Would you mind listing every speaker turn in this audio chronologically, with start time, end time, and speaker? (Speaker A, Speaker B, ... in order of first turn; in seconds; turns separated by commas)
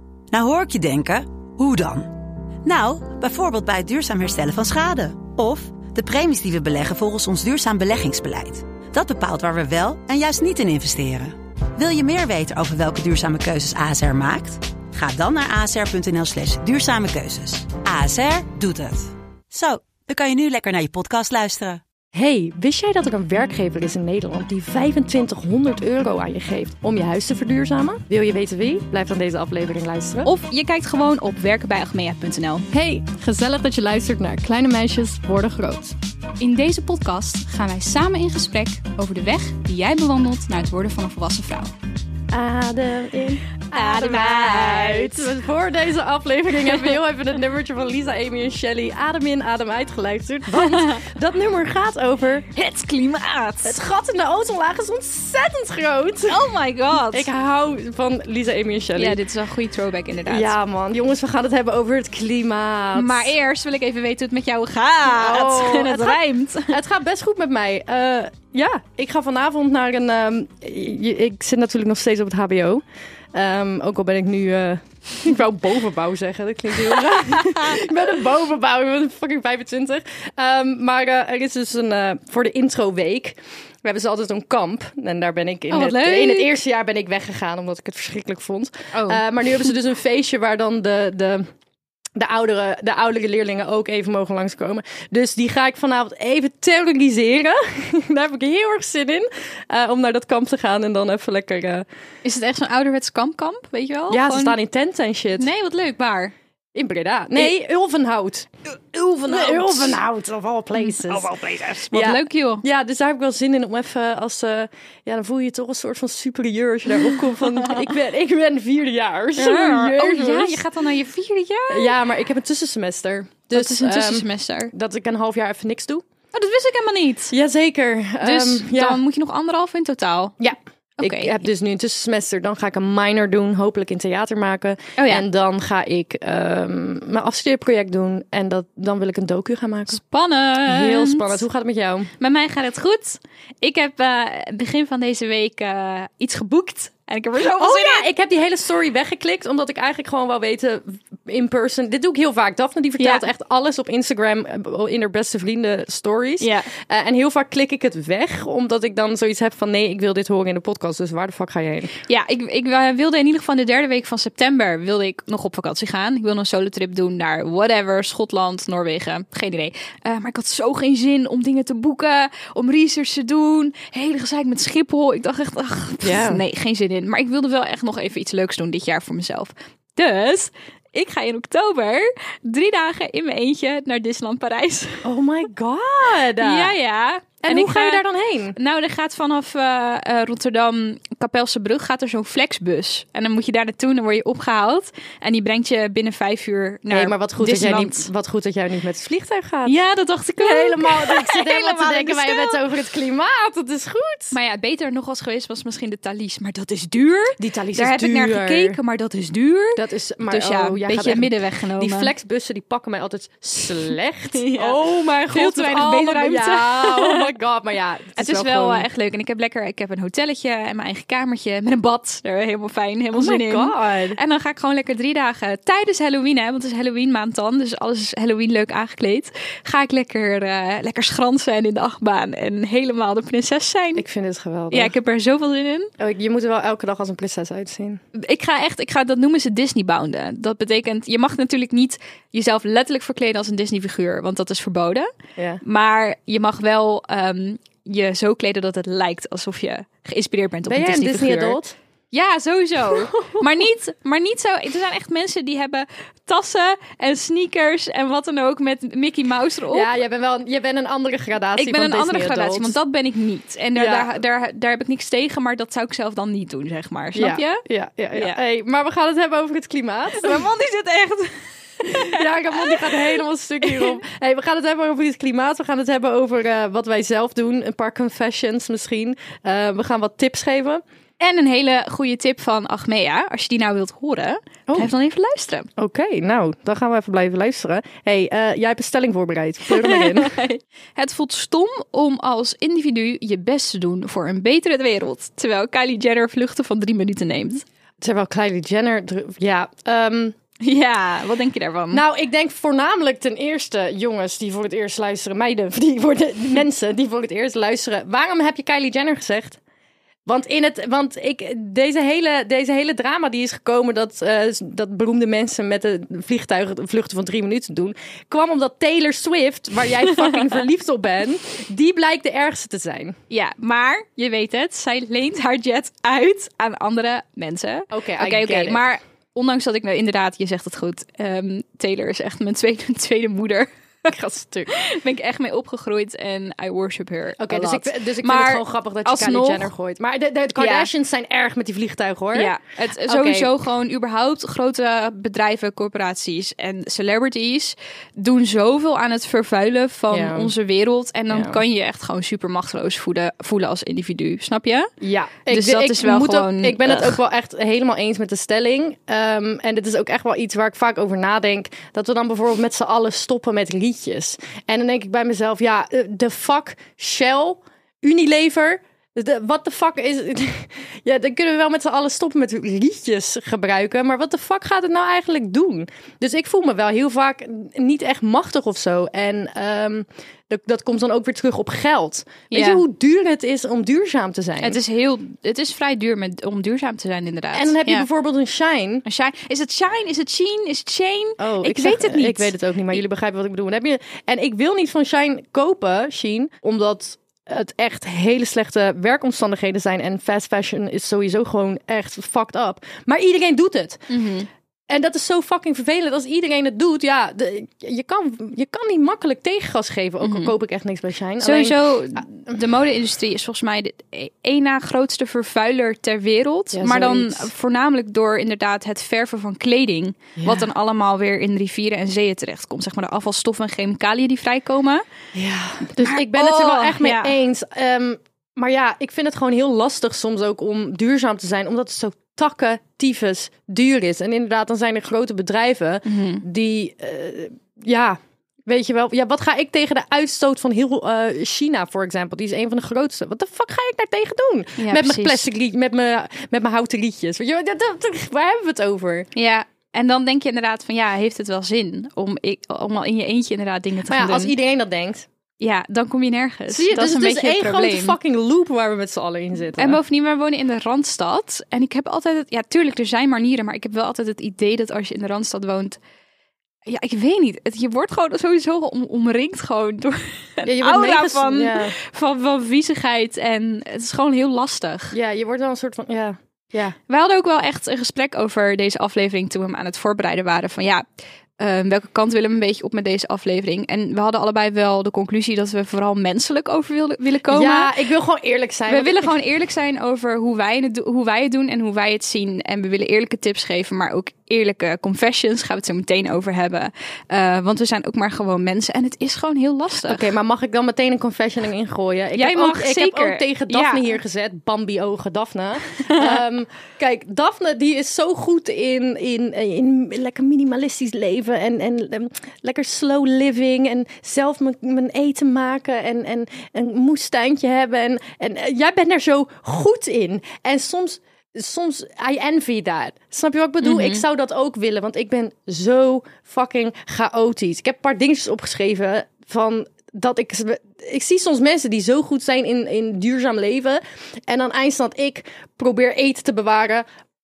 Speaker A: 0.3-21.8, Speaker B: 22.1-30.3, Speaker C: 30.2-32.7, Speaker B: 32.7-36.0, Speaker C: 36.4-41.7, Speaker B: 42.3-52.5, Speaker C: 43.7-45.3, Speaker C: 46.7-46.9, Speaker C: 50.5-51.0, Speaker C: 52.5-53.8, Speaker B: 53.6-56.4, Speaker C: 56.3-57.3, Speaker B: 57.1-59.2, Speaker C: 59.0-60.5, Speaker B: 60.3-63.3, Speaker C: 63.0-66.8, Speaker B: 65.1-91.5, Speaker C: 77.0-77.7, Speaker C: 85.7-86.5, Speaker C: 88.9-89.2, Speaker B: 92.2-101.9, Speaker C: 102.2-104.6, Speaker B: 104.1-105.5, Speaker C: 105.4-106.3, Speaker B: 106.7-111.4, Speaker C: 109.2-110.0, Speaker C: 110.8-112.6, Speaker B: 111.9-120.6, Speaker C: 119.4-122.0, Speaker B: 121.7-126.0, Speaker C: 123.5-124.7, Speaker C: 126.3-127.3, Speaker B: 127.3-129.0, Speaker C: 128.2-130.4, Speaker B: 130.4-140.0, Speaker C: 131.0-131.3, Speaker C: 135.0-135.2, Speaker C: 139.9-141.4, Speaker B: 140.6-142.1, Speaker C: 142.2-148.1, Speaker B: 147.4-161.9, Speaker C: 153.0-153.3, Speaker C: 156.4-156.7, Speaker C: 162.1-185.1, Speaker B: 176.0-176.4, Speaker B: 185.0-186.7, Speaker C: 186.4-188.0, Speaker B: 187.4-188.6, Speaker C: 188.6-198.1, Speaker B: 196.9-199.8, Speaker C: 199.7-202.6, Speaker B: 200.4-204.3, Speaker C: 204.3-212.1, Speaker B: 207.4-208.8, Speaker B: 209.8-218.9, Speaker C: 214.3-217.3, Speaker C: 218.2-234.1, Speaker B: 223.1-224.2, Speaker B: 234.0-234.9, Speaker C: 234.7-235.9, Speaker B: 236.0-238.0, Speaker C: 238.2-245.1, Speaker C: 245.6-251.6, Speaker B: 250.7-251.8, Speaker C: 252.1-259.9, Speaker B: 253.2-253.4, Speaker B: 259.7-262.8, Speaker C: 261.6-267.6, Speaker B: 263.8-264.1, Speaker B: 267.1-270.5, Speaker C: 270.1-272.9, Speaker B: 271.9-280.8, Speaker C: 273.6-274.0, Speaker C: 281.2-285.7, Speaker B: 285.8-290.3, Speaker C: 289.7-297.6, Speaker B: 298.0-300.4, Speaker C: 300.6-302.0, Speaker B: 301.9-309.6, Speaker B: 310.3-323.2, Speaker C: 323.3-339.7, Speaker B: 327.9-328.8, Speaker B: 334.1-334.7, Speaker B: 337.4-342.5, Speaker C: 340.6-340.9, Speaker C: 342.3-354.9, Speaker B: 343.0-343.5, Speaker B: 350.1-350.5, Speaker B: 351.3-351.6, Speaker B: 355.0-384.8, Speaker C: 355.5-357.2, Speaker C: 382.5-382.8, Speaker C: 384.6-388.1, Speaker B: 387.5-389.0, Speaker C: 389.1-392.5, Speaker B: 391.4-404.1, Speaker C: 404.1-404.5, Speaker B: 404.9-412.2, Speaker C: 410.2-410.5, Speaker C: 411.4-425.0, Speaker B: 416.7-417.5, Speaker B: 425.3-449.3, Speaker C: 425.9-427.4, Speaker C: 436.1-436.4, Speaker C: 444.8-445.5, Speaker C: 449.4-454.5, Speaker B: 454.1-455.3, Speaker C: 455.6-458.2, Speaker B: 456.7-460.0, Speaker C: 459.8-466.0, Speaker C: 466.9-475.1, Speaker B: 470.6-471.9, Speaker B: 475.1-477.0, Speaker C: 477.1-481.1, Speaker C: 481.6-487.9, Speaker B: 487.5-489.4, Speaker C: 488.9-500.3, Speaker B: 500.0-537.1, Speaker C: 502.4-504.2, Speaker C: 505.9-506.4, Speaker C: 523.8-524.2